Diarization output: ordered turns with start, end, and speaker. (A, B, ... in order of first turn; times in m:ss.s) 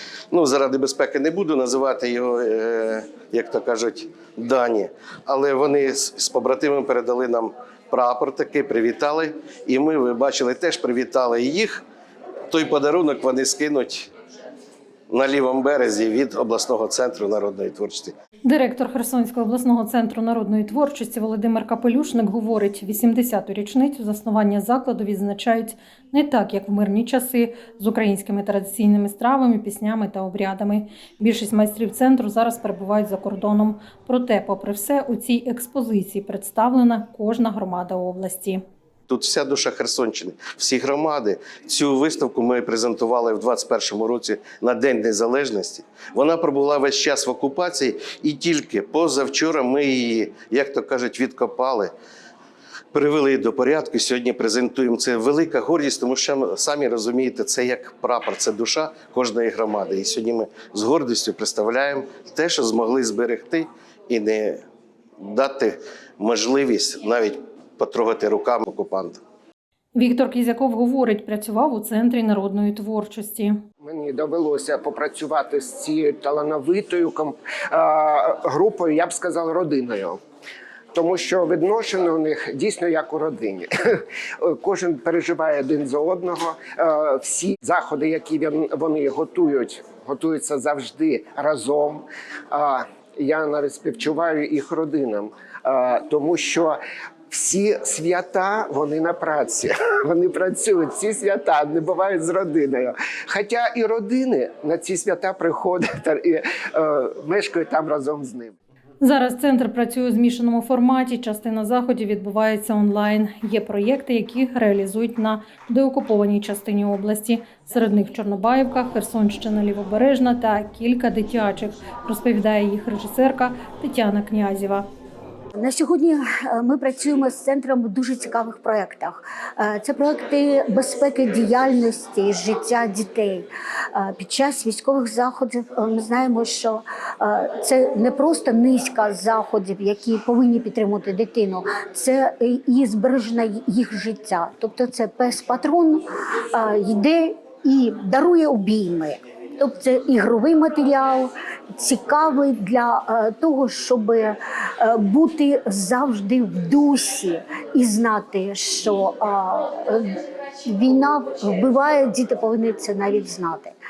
0:00.3-0:11.8 A
0:12.5-0:14.1 A
0:15.1-0:18.2 A
0:18.4-0:38.6 B
0:39.1-0:51.9 A
0:52.9-1:04.6 A
1:05.2-1:09.2 A
1:10.0-1:13.6 B
1:13.8-1:20.2 C
1:20.9-1:36.8 C
1:37.3-1:48.5 C
1:49.0-2:04.8 B
2:05.6-2:43.7 D